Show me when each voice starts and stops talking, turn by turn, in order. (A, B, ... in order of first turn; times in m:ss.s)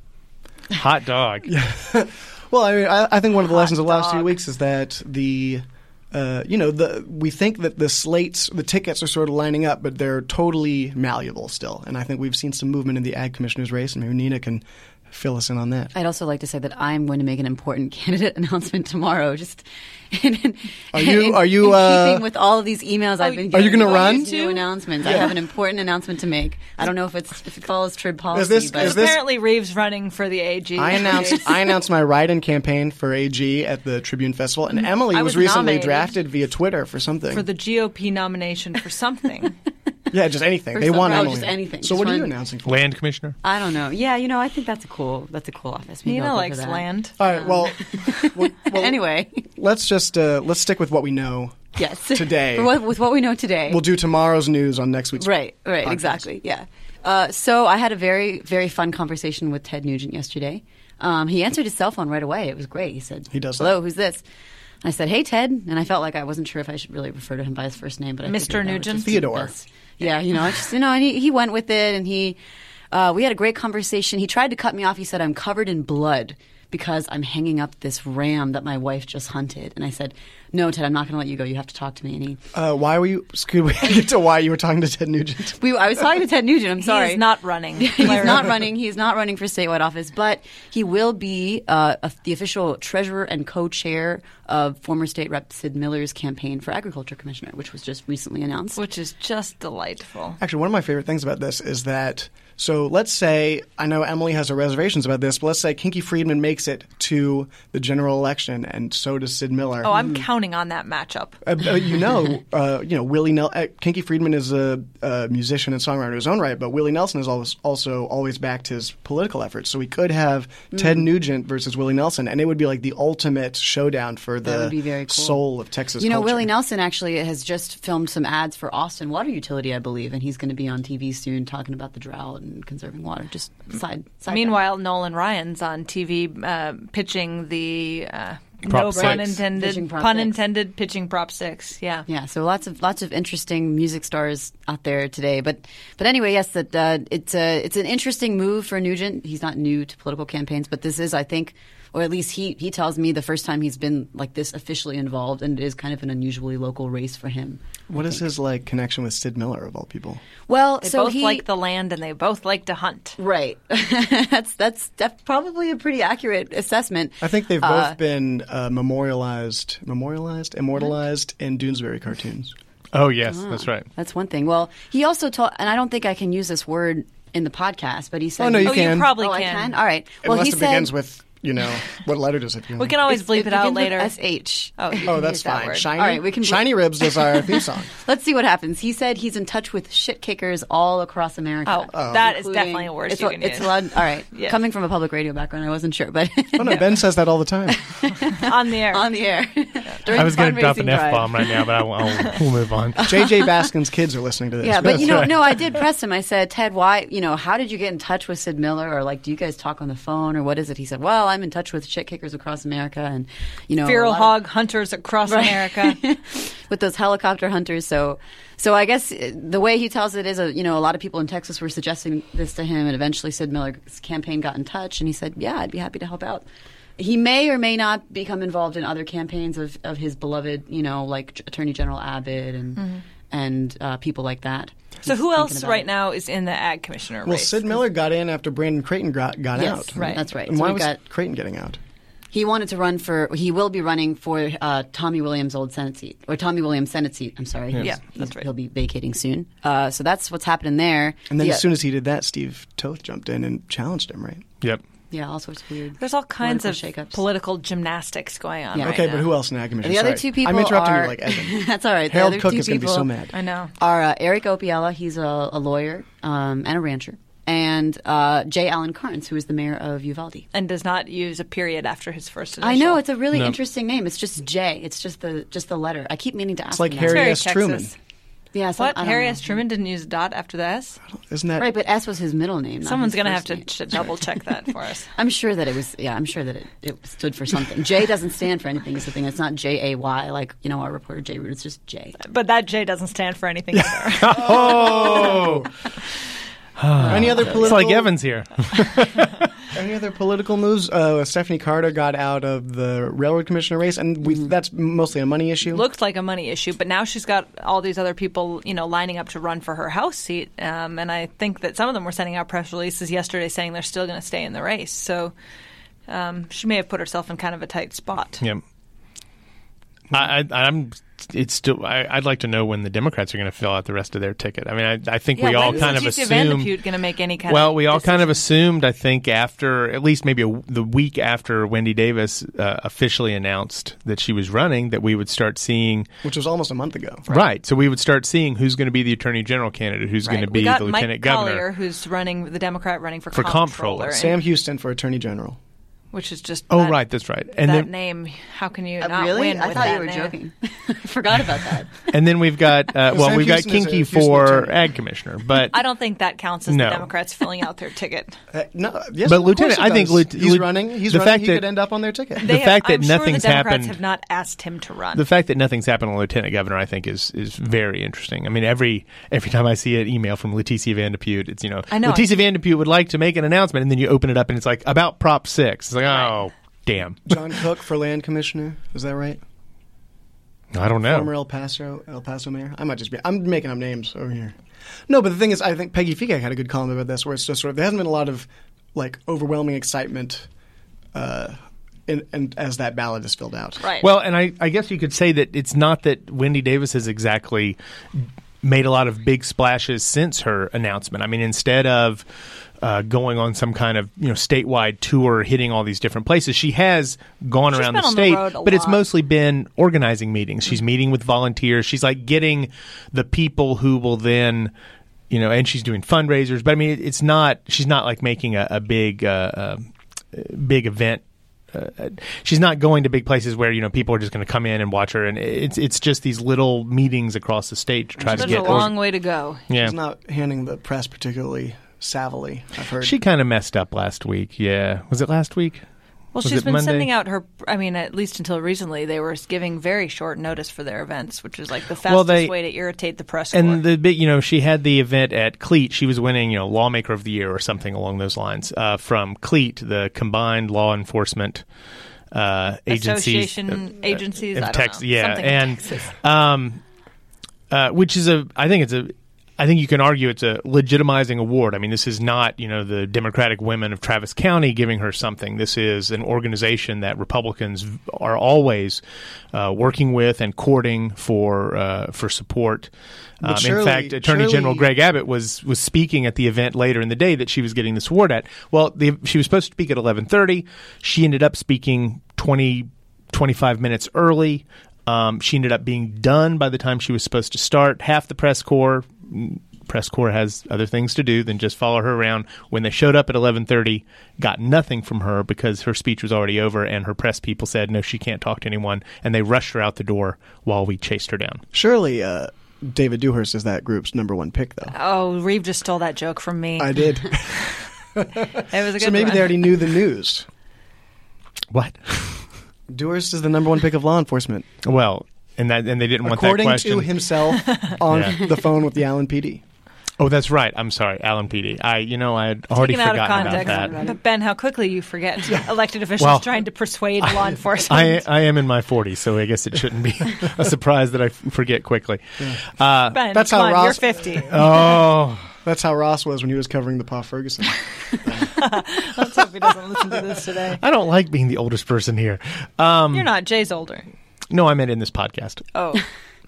0:00.7-0:01.5 A
0:01.4-0:15.9 B
0:15.9-0:29.1 C
0:20.9-0:22.3 B
0:23.2-0:25.3 D
0:23.5-0:24.3 B
0:25.0-0:25.3 B
0:28.3-0:29.3 B
0:28.7-0:31.6 D
0:30.8-0:37.5 B
0:34.8-0:36.2 D
0:37.3-0:39.6 D
0:40.1-0:42.9 B
0:40.8-0:42.4 C
0:40.8-0:41.5 D
0:42.7-0:43.4 A
0:43.4-0:49.5 C
0:46.0-0:47.2 D
0:47.2-0:52.8 B
0:51.8-0:53.8 C
0:53.7-0:55.3 B
0:55.2-1:04.2 C
0:55.8-0:56.3 B
1:03.3-1:03.8 B
1:04.8-1:12.4 C
1:08.2-1:09.3 D
1:09.0-1:09.5 B
1:12.9-1:22.4 C
1:22.5-1:25.6 B
1:25.6-1:38.8 C
1:26.8-1:28.5 D
1:38.8-1:40.4 D
1:40.4-1:50.0 B
1:49.8-1:51.4 D
1:51.4-2:06.5 B
2:04.4-2:05.4 C
2:06.0-2:14.6 C
2:14.3-2:22.1 D
2:18.7-2:19.4 A
2:18.9-2:20.4 C
2:22.1-2:38.2 C
2:37.9-2:40.2 B
2:40.5-2:41.4 C
2:40.8-2:43.2 D
2:43.2-2:48.0 C
2:47.2-2:52.6 B
2:52.9-2:53.9 A
2:53.3-3:00.9 C
2:58.4-2:59.2 B
2:58.6-2:59.8 D
3:00.2-3:03.0 B
3:02.8-3:04.2 D
3:03.1-3:16.9 C
3:04.8-3:05.9 D
3:05.0-3:07.9 B
3:11.7-3:14.6 D
3:11.9-3:12.3 B
3:16.6-3:17.8 B
3:17.7-3:21.7 C
3:18.4-3:19.1 D
3:20.1-3:23.1 A
3:23.0-3:23.4 C
3:23.0-3:25.3 B
3:24.6-3:34.4 C
3:25.0-3:25.3 A
3:33.8-3:36.0 D
3:35.3-3:46.5 C
3:47.0-3:55.9 C
3:52.8-3:53.0 D
3:55.0-3:57.8 D
3:57.2-4:01.8 B
3:59.5-4:01.0 C
4:00.0-4:00.2 D
4:02.3-4:11.7 C
4:07.8-4:08.4 D
4:11.3-4:14.4 B
4:15.1-4:17.2 C
4:16.0-4:19.3 D
4:18.8-4:19.1 C
4:18.8-4:23.3 B
4:19.8-4:23.1 C
4:23.3-4:23.7 D
4:23.8-4:30.4 C
4:30.5-4:33.0 D
4:32.6-4:37.4 C
4:36.7-4:37.9 B
4:37.1-4:38.0 D
4:38.5-4:39.5 C
4:38.8-4:41.0 D
4:41.1-4:41.7 B
4:41.6-4:44.4 C
4:42.8-4:45.1 D
4:45.2-4:52.2 C
4:52.2-4:55.3 D
4:54.2-4:55.7 A
4:54.4-4:55.5 B
4:56.8-4:59.5 A
4:57.0-4:57.8 C
4:57.1-4:58.1 B
4:59.7-5:05.8 B
5:05.7-5:15.3 D
5:16.1-5:18.4 D
5:20.1-5:26.7 A
5:25.4-5:28.4 D
5:27.5-5:36.1 A
5:36.2-5:37.2 B
5:37.3-5:41.7 A
5:40.2-5:44.4 D
5:43.3-5:44.2 A
5:44.1-5:45.6 B
5:46.1-5:47.0 D
5:46.7-5:47.9 A
5:47.6-5:50.3 D
5:49.0-5:52.1 C
5:52.1-5:55.8 A
5:53.1-5:54.8 B
5:55.7-5:58.4 D
5:56.7-5:57.1 A
5:58.5-6:02.5 B
5:59.3-6:01.6 A
6:02.4-6:04.0 A
6:02.4-6:05.2 D
6:05.2-6:17.2 A
6:11.9-6:12.3 D
6:17.3-6:19.4 B
6:20.7-6:21.3 A
6:21.0-6:24.6 B
6:25.1-6:30.5 B
6:31.1-6:31.6 B
6:32.1-6:33.8 B
6:33.8-6:34.1 D
6:34.0-6:42.2 A
6:42.8-6:54.7 A
6:47.7-6:49.0 D
6:55.3-7:09.0 A
7:08.2-7:08.9 B
7:08.3-7:09.6 D
7:09.7-7:10.0 A
7:09.8-7:13.2 B
7:13.0-7:15.9 A
7:16.3-7:23.8 D
7:16.4-7:17.1 A
7:22.0-7:22.5 A
7:23.5-7:31.6 A
7:32.3-7:36.8 A
7:32.9-7:36.2 D
7:37.7-7:49.0 A
7:49.5-7:52.9 A
7:53.4-8:21.6 A
7:53.4-7:54.9 B
8:21.7-8:24.9 B
8:24.9-8:27.7 D
8:26.8-8:30.5 B
8:28.7-8:29.8 D
8:31.7-8:32.5 A
8:32.9-8:34.7 B
8:34.8-8:37.1 A
8:36.2-8:39.6 B
8:37.6-8:37.9 D
8:38.1-8:38.4 A
8:40.2-8:44.0 A
8:42.8-8:48.2 D
8:43.3-8:44.2 C
8:46.2-8:46.5 A
8:47.9-8:53.2 A
8:53.1-8:54.7 D
8:53.3-8:54.1 B
8:54.5-8:55.5 A
8:55.6-8:58.6 B
8:58.5-9:00.8 D
9:00.8-9:03.3 A
9:03.1-9:04.1 D
9:04.5-9:05.6 A
9:05.7-9:06.0 D